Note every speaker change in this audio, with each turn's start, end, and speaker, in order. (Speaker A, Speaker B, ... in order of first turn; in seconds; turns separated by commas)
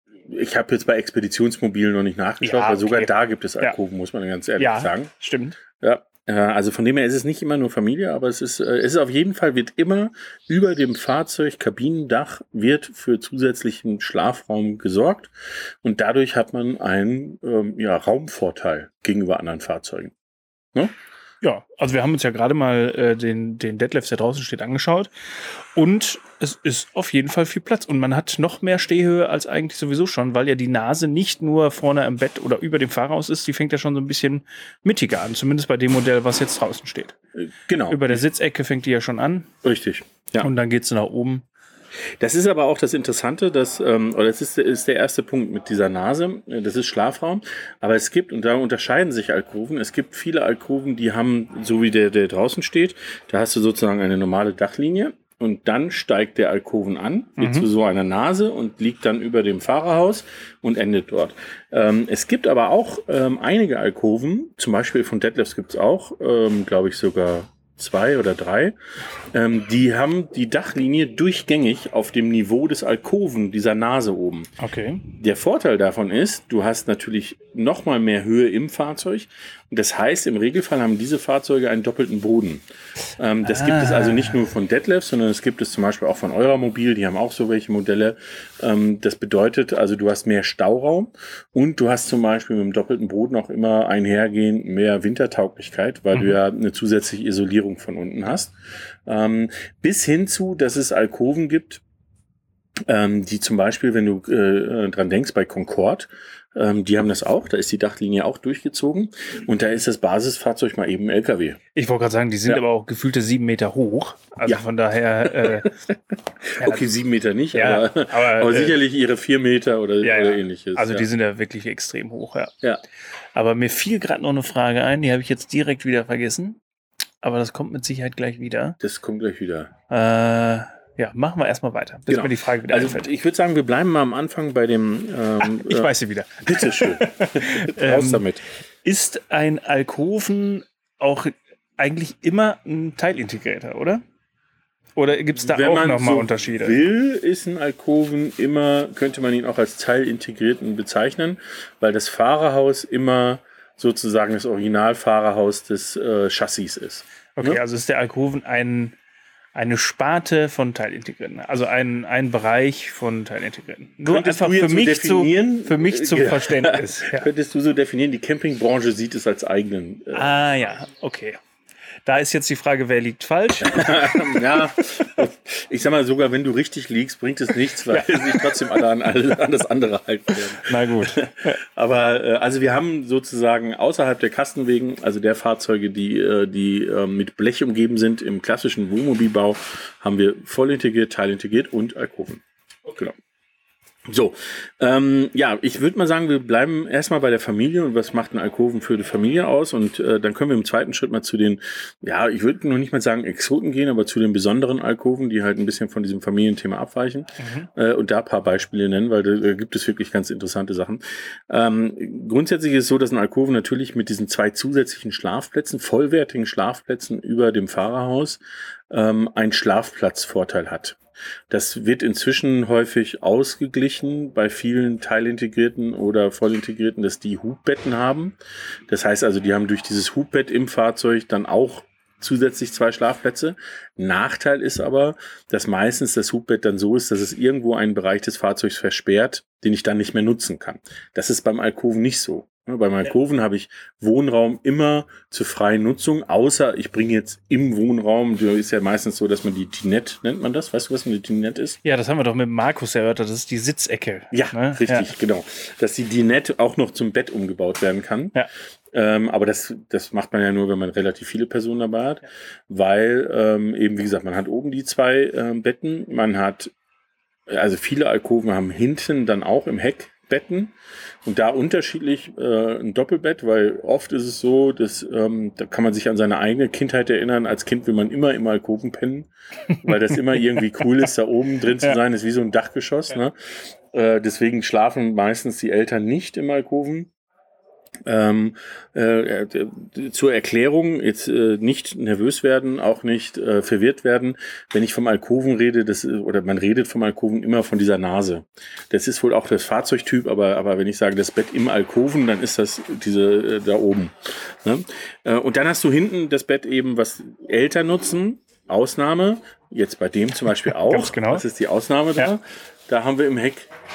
Speaker A: 0.3-5.1, Speaker B: 2.4-3.8, Speaker B: 4.6-5.6, Speaker A: 5.8-15.3, Speaker A: 15.8-20.1, Speaker B: 21.4-37.1, Speaker A: 37.4-38.2, Speaker B: 37.9-39.5, Speaker A: 39.6-40.5, Speaker B: 40.4-41.5, Speaker A: 42.2-68.8, Speaker B: 57.4-57.7, Speaker A: 69.3-74.5, Speaker B: 74.6-75.1, Speaker A: 75.1-82.6, Speaker A: 83.2-98.5, Speaker B: 83.4-84.4, Speaker A: 99.1-101.8, Speaker A: 102.9-111.6, Speaker B: 111.8-115.7, Speaker A: 115.3-121.1, Speaker B: 117.5-118.8, Speaker B: 120.0-122.5, Speaker B: 123.3-126.6, Speaker B: 127.2-128.8, Speaker A: 128.8-129.7, Speaker B: 129.9-133.1, Speaker A: 132.1-135.9, Speaker B: 135.4-138.3, Speaker A: 136.4-138.4, Speaker B: 138.8-144.0, Speaker B: 145.0-146.9, Speaker A: 145.4-157.6, Speaker B: 157.4-158.9, Speaker B: 159.5-167.3, Speaker A: 164.1-170.4, Speaker B: 170.1-171.4, Speaker B: 172.1-174.7, Speaker A: 173.6-192.4, Speaker B: 177.8-178.8, Speaker B: 180.5-181.6, Speaker B: 192.9-193.1, Speaker A: 194.1-218.4, Speaker B: 207.4-207.7, Speaker A: 218.9-221.0, Speaker A: 221.5-228.4, Speaker A: 228.9-251.8, Speaker B: 251.8-255.1, Speaker A: 254.3-258.4, Speaker A: 258.9-266.7, Speaker A: 267.5-270.7, Speaker A: 271.2-287.1, Speaker B: 279.9-280.6, Speaker A: 288.1-313.7, Speaker B: 310.7-311.4